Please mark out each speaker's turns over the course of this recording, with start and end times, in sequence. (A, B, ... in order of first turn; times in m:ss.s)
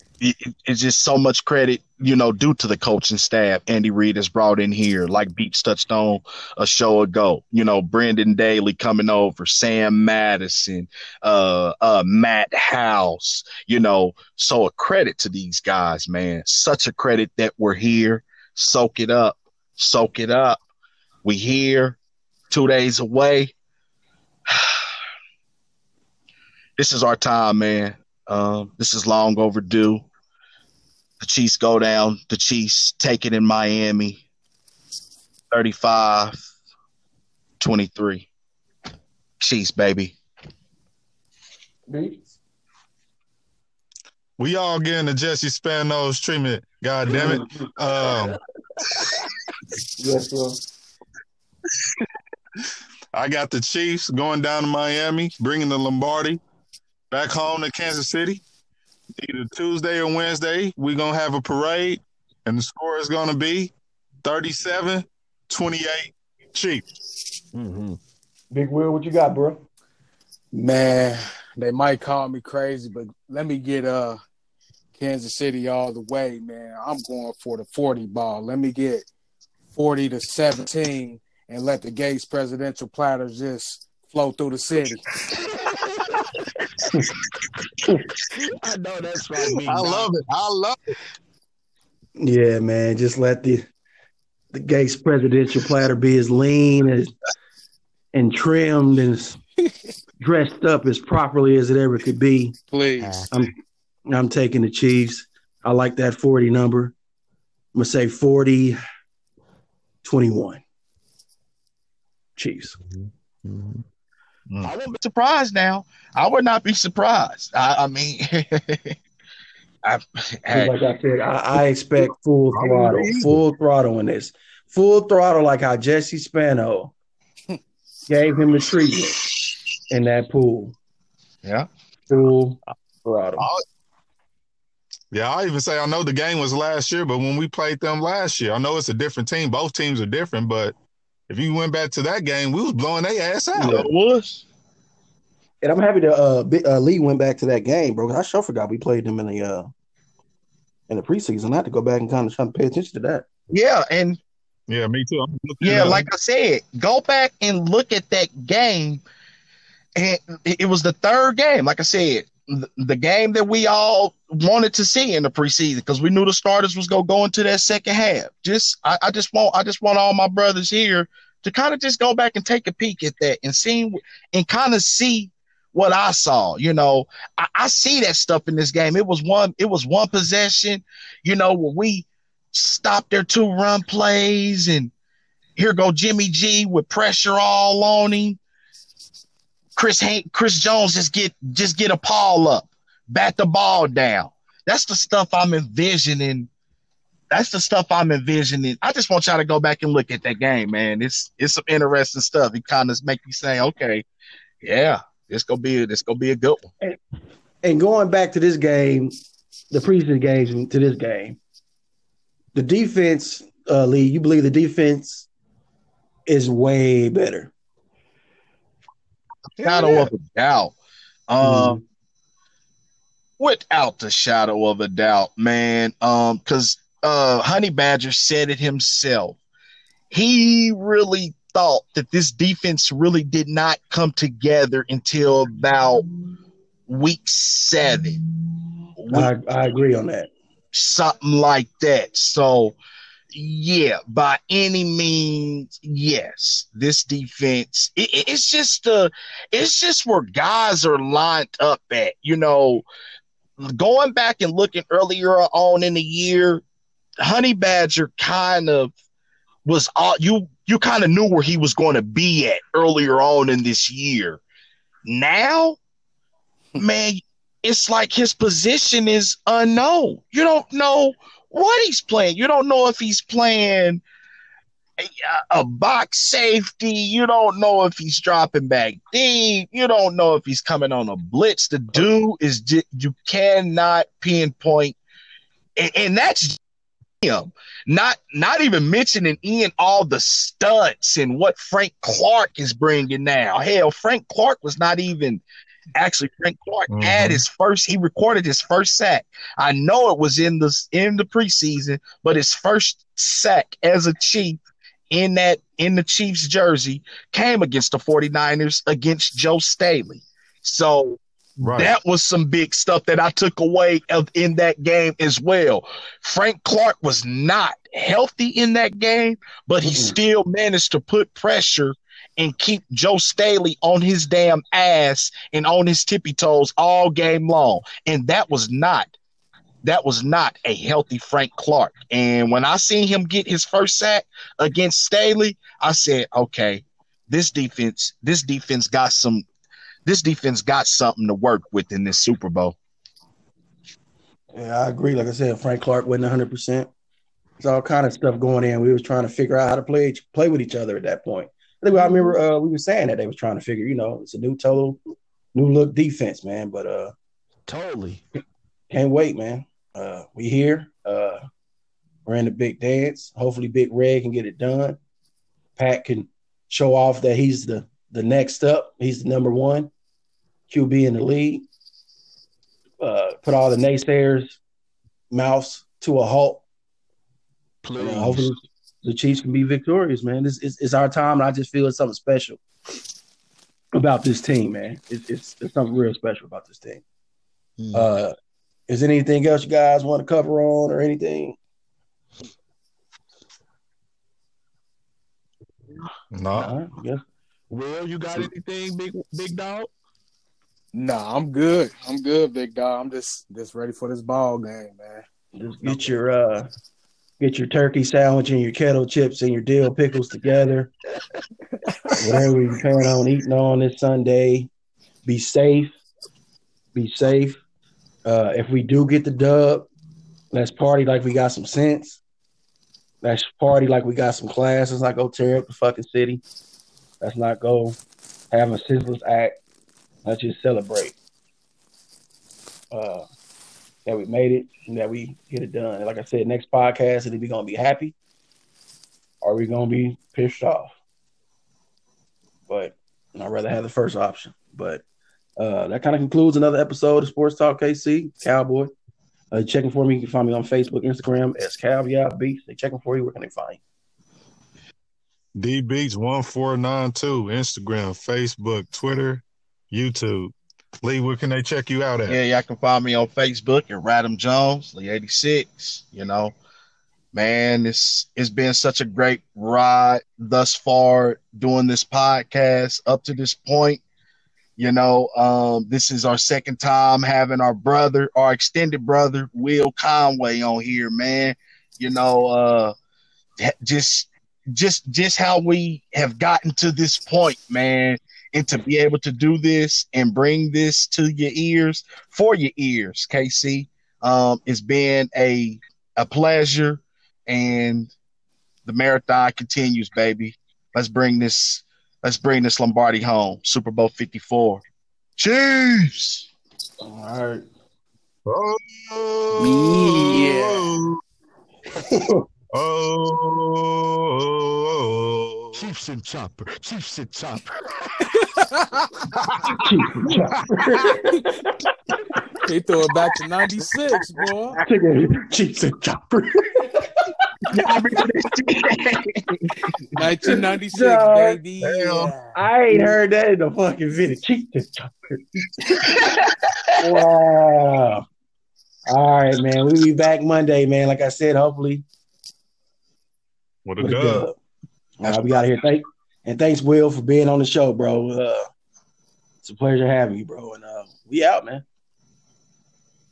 0:00.2-0:20.6 A
0:21.2-0:22.0 A
0:22.5-0:23.5 A
0:24.5-0:24.8 A
0:26.8-0:30.0 A
0:31.2-0:34.2 A
0:35.5-0:36.4 A
0:37.6-0:38.3 A
0:39.4-0:40.2 A
0:41.9-0:42.3 B
0:44.4-0:48.4 C
0:47.1-0:48.1 B
0:50.0-0:50.6 B
0:53.1-0:56.4 C
0:57.1-0:58.4 C
0:59.2-1:06.8 C
1:07.5-1:08.0 D
1:08.5-1:09.6 B
1:10.5-1:14.2 E
1:15.0-1:19.1 E
1:19.7-1:25.1 E
1:25.3-1:26.3 D
1:28.3-1:30.1 D
1:29.4-1:30.8 C
1:32.2-1:33.7 B
1:34.5-1:37.1 B
1:38.1-1:39.4 B
1:40.2-1:42.6 B
1:42.7-1:43.2 E
1:43.0-1:43.3 D
1:44.1-1:47.0 B
1:47.7-1:48.8 B
1:50.0-1:50.6 B
1:52.4-1:52.8 B
1:52.9-1:53.8 D
1:54.7-1:59.0 A
1:59.8-2:00.8 A
2:00.5-2:06.9 B
2:02.5-2:03.3 C
2:08.1-2:09.2 B
2:09.9-2:10.8 B
2:12.1-2:13.5 B
2:15.1-2:20.8 C
2:21.3-2:23.9 C
2:23.6-2:23.9 B
2:23.6-2:24.4 A
2:25.6-2:29.7 B
2:30.9-2:33.2 B
2:33.5-2:34.2 A
2:34.7-2:36.1 C
2:35.6-2:39.0 A
2:40.0-3:04.9 A
3:05.6-3:08.4 A
3:09.8-3:16.5 A
3:17.3-3:24.0 A
3:24.6-3:26.7 A
3:27.6-3:29.2 B
3:29.7-3:31.4 B
3:32.5-3:35.3 B
3:36.3-3:37.5 B
3:39.6-3:40.8 A
3:41.3-3:41.8 A
3:41.4-3:41.8 B
3:43.4-3:49.4 A
3:50.1-3:56.0 A
3:56.9-3:58.2 A
3:59.0-3:59.3 A
3:59.1-4:00.3 B
4:00.7-4:02.8 A
4:03.3-4:12.8 A
4:13.6-4:16.6 A
4:17.2-4:18.9 A
4:19.6-4:24.4 A
4:25.1-4:25.8 A
4:26.8-4:34.0 A
4:35.0-4:45.0 A
4:45.8-4:46.6 A
4:47.2-4:55.4 A
4:56.0-5:29.1 A
4:56.9-4:57.4 C
5:11.6-5:12.0 C
5:19.8-5:20.2 B
5:29.8-5:39.4 A
5:40.1-5:42.8 A
5:44.5-5:46.9 B
5:47.6-5:55.0 B
5:55.5-5:57.1 B
5:57.7-5:58.2 D
5:58.9-6:01.4 B
6:02.3-6:05.0 B
6:05.8-6:09.9 B
6:10.7-6:11.7 B
6:13.0-6:14.6 B
6:15.3-6:16.6 B
6:17.8-6:18.5 D
6:18.0-6:22.6 B
6:24.0-6:27.0 B
6:27.8-6:28.1 D
6:27.9-6:28.4 B
6:28.9-6:31.6 B
6:36.3-6:36.8 C
6:36.5-6:37.2 B
6:37.7-6:39.9 D
6:40.9-6:45.2 E
6:45.6-6:46.7 B
6:47.4-6:50.9 B
6:52.2-6:54.7 B
6:55.2-6:55.9 B
6:56.9-6:57.6 B
6:58.2-6:59.9 B
7:00.5-7:02.2 B
7:03.2-7:06.4 B
7:07.2-7:08.0 B
7:08.5-7:09.6 B
7:10.2-7:11.1 B
7:12.9-7:13.3 B
7:14.0-7:18.1 B
7:19.4-7:20.9 B
7:22.7-7:25.0 B
7:25.6-7:28.9 B
7:29.5-7:33.8 B
7:35.6-7:42.4 C
7:42.3-7:46.6 A
7:47.3-7:54.0 A
7:54.8-8:02.9 A
8:03.6-8:18.1 A
8:18.8-8:24.8 A
8:25.4-8:26.5 A
8:27.0-8:27.6 B
8:28.5-8:31.2 C
8:29.6-8:30.9 E
8:32.0-8:32.4 B
8:32.7-8:35.8 C
8:35.7-8:38.3 D
8:38.4-8:39.1 E
8:39.8-8:41.3 B
8:42.6-8:44.8 E
8:44.8-8:47.1 B
8:47.7-8:49.4 A
8:50.1-8:52.6 E
8:50.2-8:51.6 B
8:51.8-8:52.3 C
8:52.6-8:56.3 B
8:57.0-8:58.2 B
8:59.1-9:02.0 B
9:03.9-9:04.5 C
9:04.0-9:04.6 B
9:05.2-9:08.7 B
9:09.6-9:11.8 B